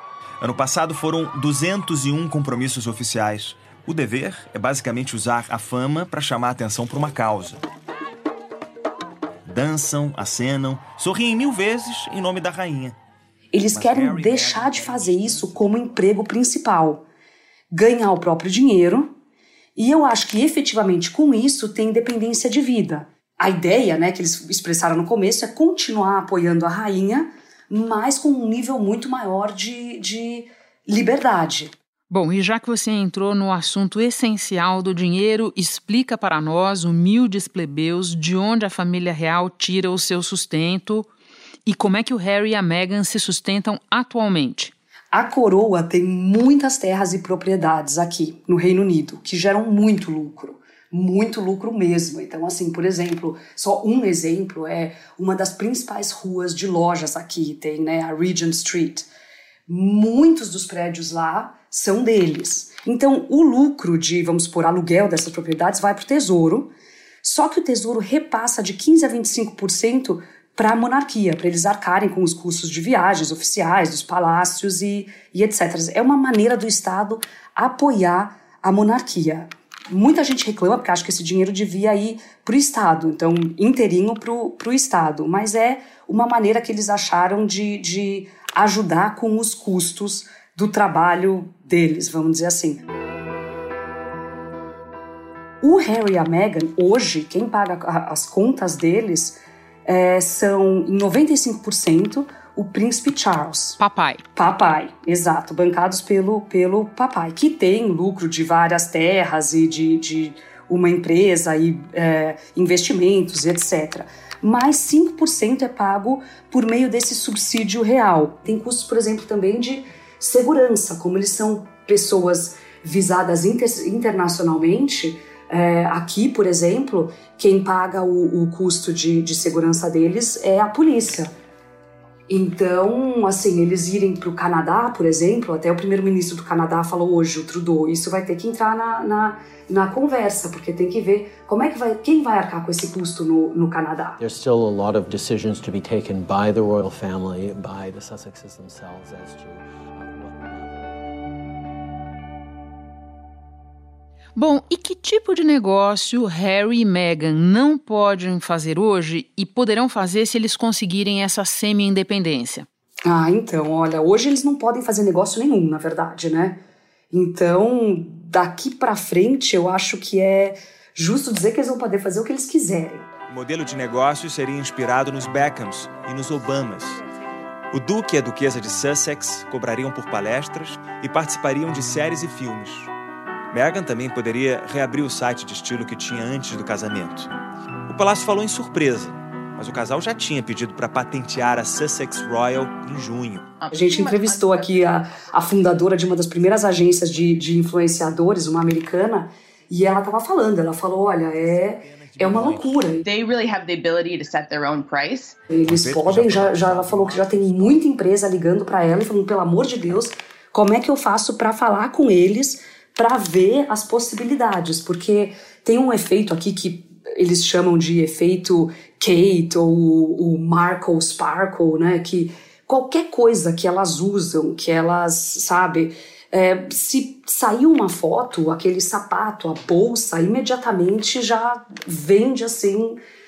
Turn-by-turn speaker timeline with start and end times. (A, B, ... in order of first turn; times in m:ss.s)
0:00.4-0:07.6 A
0:09.4-0:13.0 A
0:13.5-0:17.0 B
0:13.7-0:15.7 A
0:17.7-0:19.1 B
0:19.8-0:31.7 B
0:32.1-0:41.1 C
0:41.6-0:44.7 C
0:45.1-0:59.1 B
0:59.7-1:06.7 B
1:07.2-1:32.8 B
1:35.6-1:43.8 B
1:43.8-1:44.2 C
1:44.3-2:11.3 B
2:12.3-2:24.2 B
2:24.2-2:31.0 D
2:34.4-2:42.7 C
2:43.0-2:46.6 B
2:47.1-2:53.1 B
2:53.3-2:57.0 A
2:57.7-3:02.9 A
3:03.5-3:07.3 A
3:07.9-3:13.5 A
3:13.6-3:14.6 E
3:13.7-3:23.0 B
3:21.5-3:22.9 A
3:23.0-3:25.4 E
3:25.5-3:53.0 B
3:25.6-3:27.8 A